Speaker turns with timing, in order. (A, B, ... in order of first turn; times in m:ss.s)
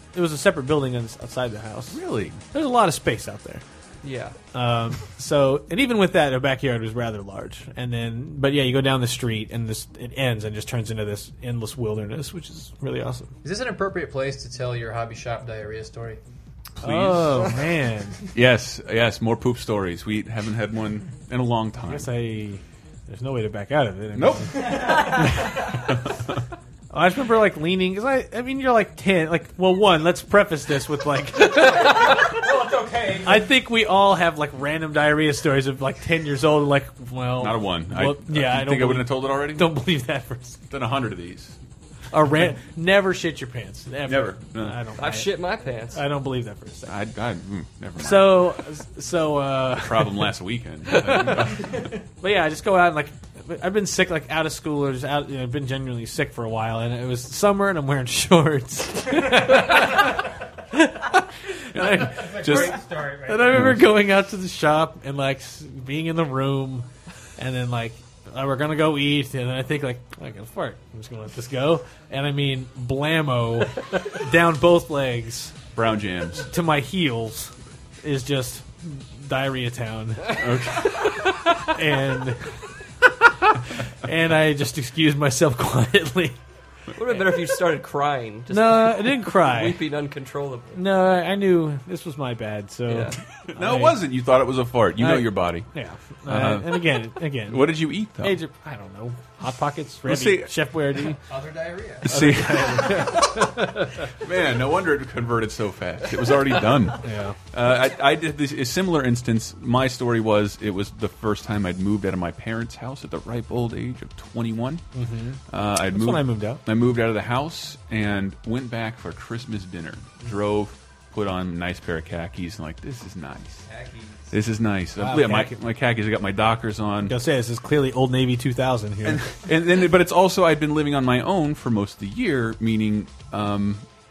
0:00.1-0:03.6 A
0:01.9-0:02.4 B
0:04.0-0:04.4 C
0:04.5-0:13.3 A
0:13.4-0:16.2 D
0:16.8-0:17.5 B
0:16.8-0:18.2 A
0:18.3-0:22.1 B
0:21.8-0:25.7 A
0:24.1-0:26.0 B
0:24.6-0:25.3 E
0:26.9-0:32.4 A
0:32.0-0:33.5 E
0:33.2-0:40.6 A
0:37.4-0:39.8 B
0:40.7-0:41.6 B
0:42.1-0:45.3 A
0:44.1-0:44.8 B
0:45.0-0:46.0 C
0:45.9-0:47.0 A
0:46.9-0:48.6 B
0:48.0-0:50.3 A
0:49.8-0:51.9 B
0:50.9-0:51.4 A
0:52.2-1:06.9 A
1:01.7-1:02.8 B
1:01.9-1:03.7 E
1:03.5-1:03.8 B
1:07.4-1:15.6 A
1:15.8-1:16.5 B
1:16.4-1:17.5 A
1:18.0-1:22.6 A
1:20.4-1:21.5 B
1:23.5-1:26.4 A
1:27.0-1:30.8 C
1:28.5-1:29.8 A
1:30.7-1:34.0 A
1:32.9-1:33.2 C
1:33.5-1:35.7 B
1:35.0-1:41.2 A
1:36.3-1:38.4 B
1:40.0-1:41.0 B
1:41.3-1:42.3 D
1:42.0-1:43.4 B
1:42.1-1:43.9 A
1:44.2-1:54.8 B
1:47.0-1:47.4 A
1:55.0-1:56.6 A
1:55.5-2:03.6 B
2:03.6-2:04.4 D
2:04.3-2:07.2 B
2:05.0-2:05.6 A
2:07.0-2:09.3 A
2:09.0-2:13.9 B